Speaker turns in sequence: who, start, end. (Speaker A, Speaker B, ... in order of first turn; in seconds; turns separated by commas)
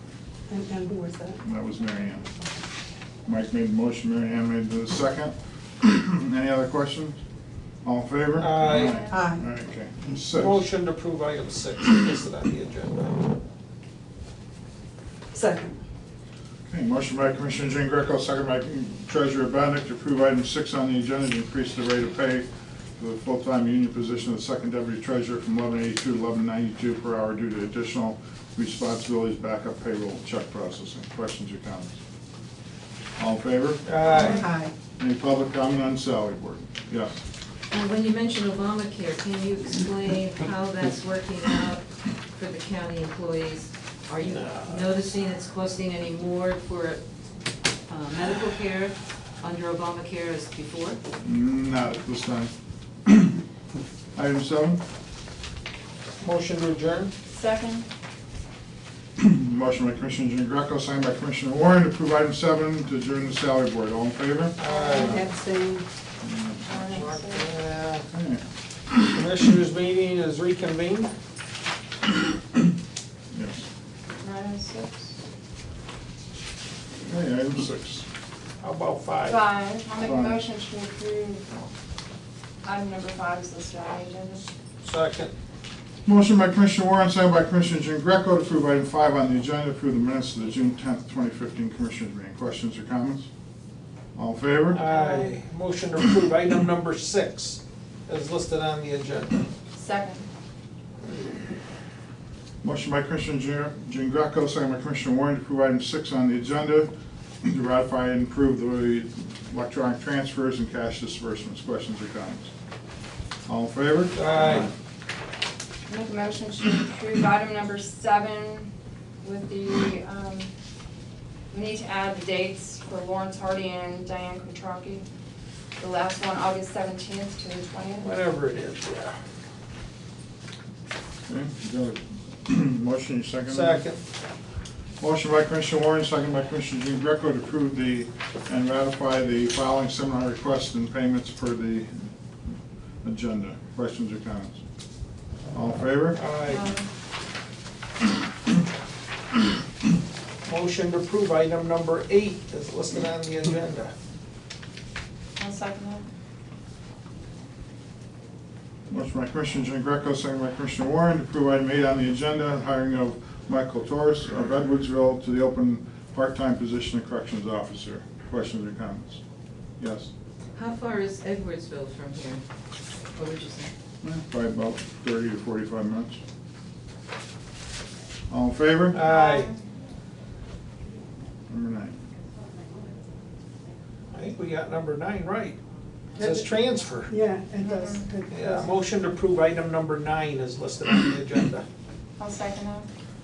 Speaker A: 0.5-1.4, Speaker B: 1.4-2.3, Speaker B: 3.2-7.2, Speaker B: 7.8-10.6, Speaker C: 8.4-9.0, Speaker D: 8.8-9.1, Speaker A: 9.1-9.4, Speaker C: 10.2-13.2, Speaker A: 15.3-15.8, Speaker B: 16.7-32.0, Speaker B: 33.2-34.3, Speaker C: 33.8-34.5, Speaker A: 34.4-34.7, Speaker B: 35.0-37.2, Speaker E: 37.7-47.0, Speaker C: 44.4-44.7, Speaker E: 47.9-51.0, Speaker B: 51.2-52.5, Speaker B: 53.0-53.4, Speaker B: 54.1-54.8, Speaker C: 56.2-57.1, Speaker D: 57.3-57.9, Speaker B: 59.2-65.0, Speaker C: 64.5-65.2, Speaker D: 64.6-65.2, Speaker A: 64.9-65.8, Speaker B: 66.2-66.9, Speaker D: 66.6-67.5, Speaker E: 66.9-67.4, Speaker C: 67.0-68.0, Speaker B: 68.1-68.4, Speaker C: 69.0-71.1, Speaker B: 73.3-73.6, Speaker D: 74.2-75.2, Speaker B: 77.0-78.0, Speaker C: 78.6-79.4, Speaker D: 79.2-81.6, Speaker B: 80.0-80.4, Speaker D: 82.6-84.4, Speaker C: 84.8-85.3, Speaker B: 86.0-93.3, Speaker B: 94.1-94.8, Speaker C: 94.7-99.4, Speaker D: 94.8-95.3, Speaker D: 99.7-100.2, Speaker B: 102.6-112.5, Speaker B: 113.5-114.7, Speaker C: 114.1-114.7, Speaker D: 115.9-118.7, Speaker D: 119.2-120.5, Speaker D: 121.5-125.0, Speaker D: 125.8-128.1, Speaker C: 128.0-129.2, Speaker B: 131.3-133.8, Speaker C: 133.5-134.0, Speaker B: 135.0-142.1, Speaker B: 143.0-144.6, Speaker B: 145.5-146.2, Speaker C: 146.1-146.7, Speaker D: 146.5-146.8, Speaker C: 150.4-153.9, Speaker D: 155.4-156.0, Speaker B: 158.9-169.2, Speaker B: 169.8-170.1, Speaker E: 170.5-172.4, Speaker E: 173.1-173.7, Speaker B: 174.0-176.2, Speaker B: 178.3-179.0, Speaker C: 178.9-179.5, Speaker D: 179.1-179.6, Speaker B: 181.5-181.9, Speaker C: 184.1-185.6, Speaker C: 186.2-187.2, Speaker A: 187.1-188.7, Speaker D: 187.6-188.0, Speaker C: 188.3-191.7, Speaker D: 192.2-192.9